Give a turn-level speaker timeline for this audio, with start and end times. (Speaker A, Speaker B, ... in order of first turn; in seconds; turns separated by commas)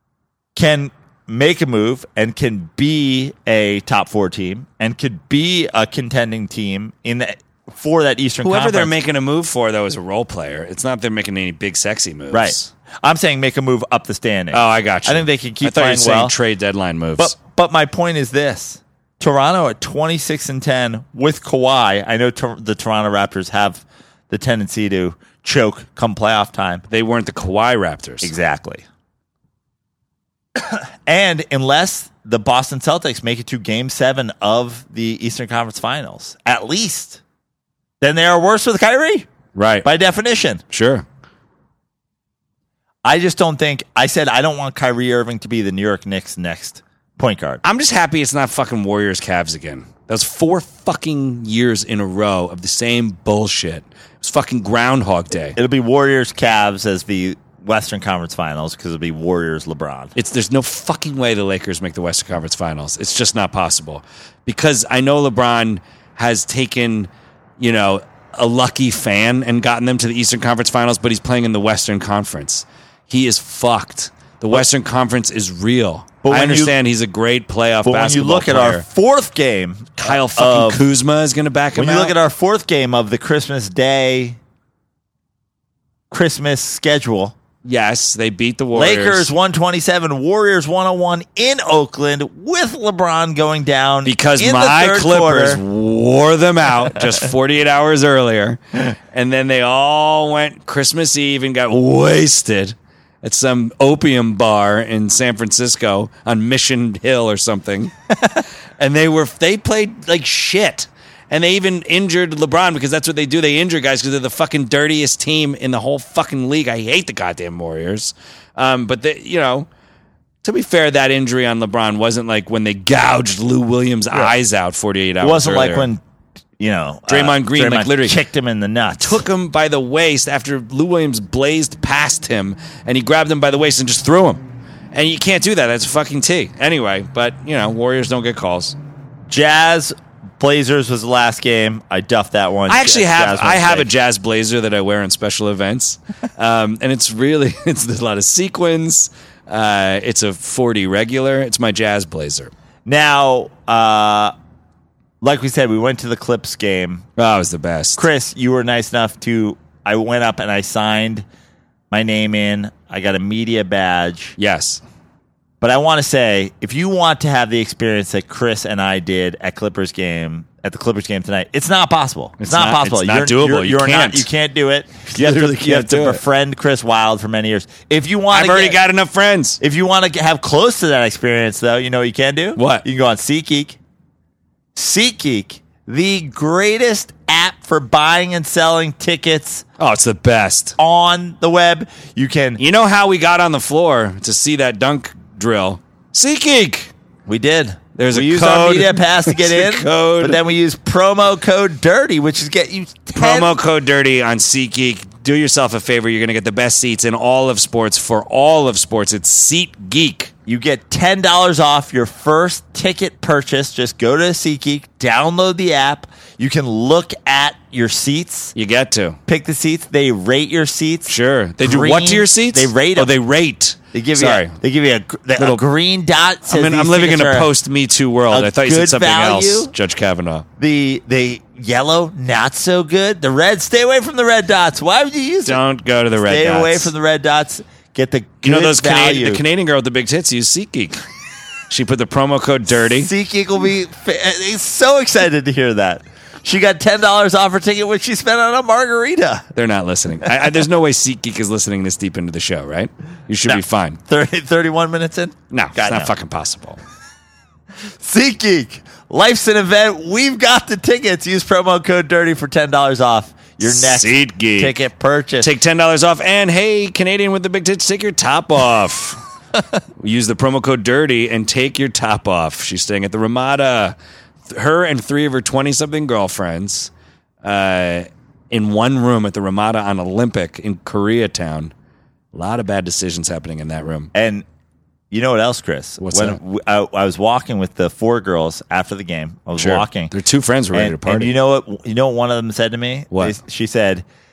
Speaker A: 0.6-8.9, Speaker B: 8.4-12.7, Speaker A: 12.3-16.3, Speaker B: 14.5-17.3, Speaker A: 17.2-26.8, Speaker B: 26.9-28.3, Speaker A: 28.2-28.8, Speaker A: 30.6-37.2, Speaker A: 38.0-39.3, Speaker B: 39.5-39.9, Speaker A: 39.8-40.6, Speaker B: 40.7-41.0, Speaker A: 43.0-47.6, Speaker B: 47.6-55.6, Speaker A: 55.6-60.1, Speaker B: 60.1-78.8, Speaker A: 76.2-76.8, Speaker A: 77.8-80.8, Speaker B: 80.0-82.2, Speaker A: 81.8-84.4, Speaker A: 86.1-87.3, Speaker B: 87.7-89.3, Speaker A: 88.8-95.6, Speaker B: 94.0-108.0, Speaker A: 97.0-97.2, Speaker B: 108.8-119.7, Speaker B: 120.4-125.9, Speaker A: 125.2-126.0, Speaker A: 126.6-129.2, Speaker B: 127.1-128.2, Speaker B: 129.0-138.8, Speaker A: 139.3-143.9, Speaker B: 142.7-152.5, Speaker A: 152.9-154.3, Speaker A: 155.2-157.1, Speaker B: 157.2-158.1, Speaker A: 158.0-161.2, Speaker A: 161.9-164.4, Speaker B: 164.4-164.8, Speaker A: 165.6-178.8, Speaker B: 172.4-174.3, Speaker B: 175.1-176.2, Speaker B: 178.3-179.6, Speaker A: 179.6-183.8, Speaker B: 182.6-182.8, Speaker A: 184.8-189.6, Speaker B: 189.8-190.8, Speaker A: 190.8-192.6, Speaker B: 192.6-196.9, Speaker A: 197.3-203.5, Speaker B: 198.0-200.4, Speaker B: 203.2-210.3, Speaker A: 210.5-218.5, Speaker B: 218.5-219.2, Speaker A: 219.3-223.1, Speaker B: 221.1-224.6, Speaker A: 223.9-227.5, Speaker B: 226.4-230.5, Speaker A: 228.3-229.7, Speaker A: 230.6-235.6, Speaker B: 235.4-236.9, Speaker A: 236.2-239.4, Speaker B: 238.4-241.0, Speaker B: 241.7-243.1, Speaker A: 242.8-249.5, Speaker B: 249.6-254.0, Speaker A: 253.5-256.1, Speaker B: 255.5-256.8, Speaker A: 257.9-265.5, Speaker B: 263.7-264.8, Speaker B: 265.4-269.2, Speaker B: 270.0-273.9, Speaker B: 274.5-276.9, Speaker B: 277.4-281.7, Speaker B: 282.3-284.1, Speaker A: 284.1-284.4, Speaker A: 285.1-290.1, Speaker B: 286.0-286.4, Speaker B: 289.6-291.3, Speaker A: 290.7-294.0, Speaker B: 293.1-293.4